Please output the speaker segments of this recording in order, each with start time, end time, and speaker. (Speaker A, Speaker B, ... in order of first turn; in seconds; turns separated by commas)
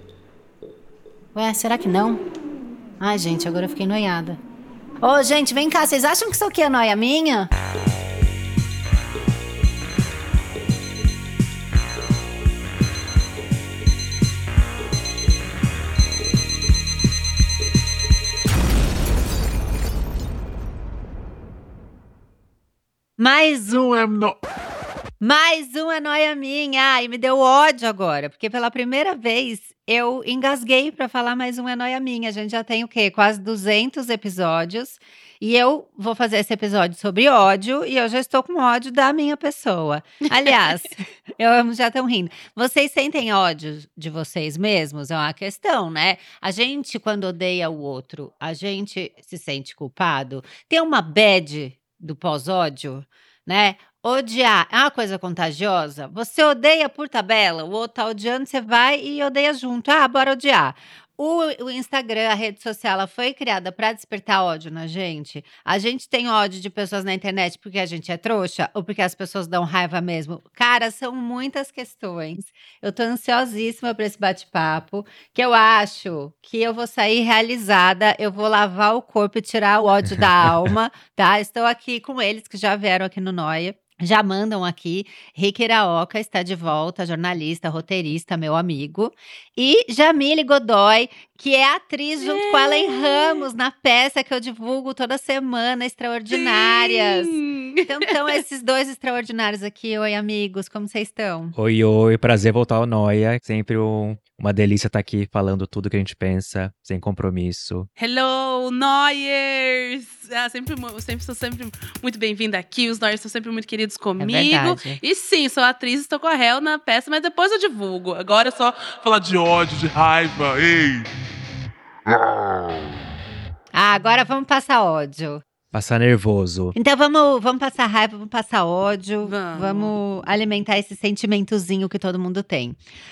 Speaker A: 1.4-2.2, Speaker A: 3.0-4.4, Speaker A: 5.0-7.5, Speaker A: 23.2-24.4, Speaker A: 25.2-97.3, Speaker B: 80.1-80.7, Speaker C: 92.2-93.5, Speaker C: 96.3-98.4, Speaker A: 97.9-101.5, Speaker B: 101.6-107.9, Speaker C: 108.0-119.0, Speaker A: 114.2-115.0, Speaker D: 119.0-121.1, Speaker D: 122.1-122.9, Speaker A: 123.7-125.4, Speaker B: 125.7-126.8, Speaker A: 126.7-132.8, Speaker C: 129.2-129.9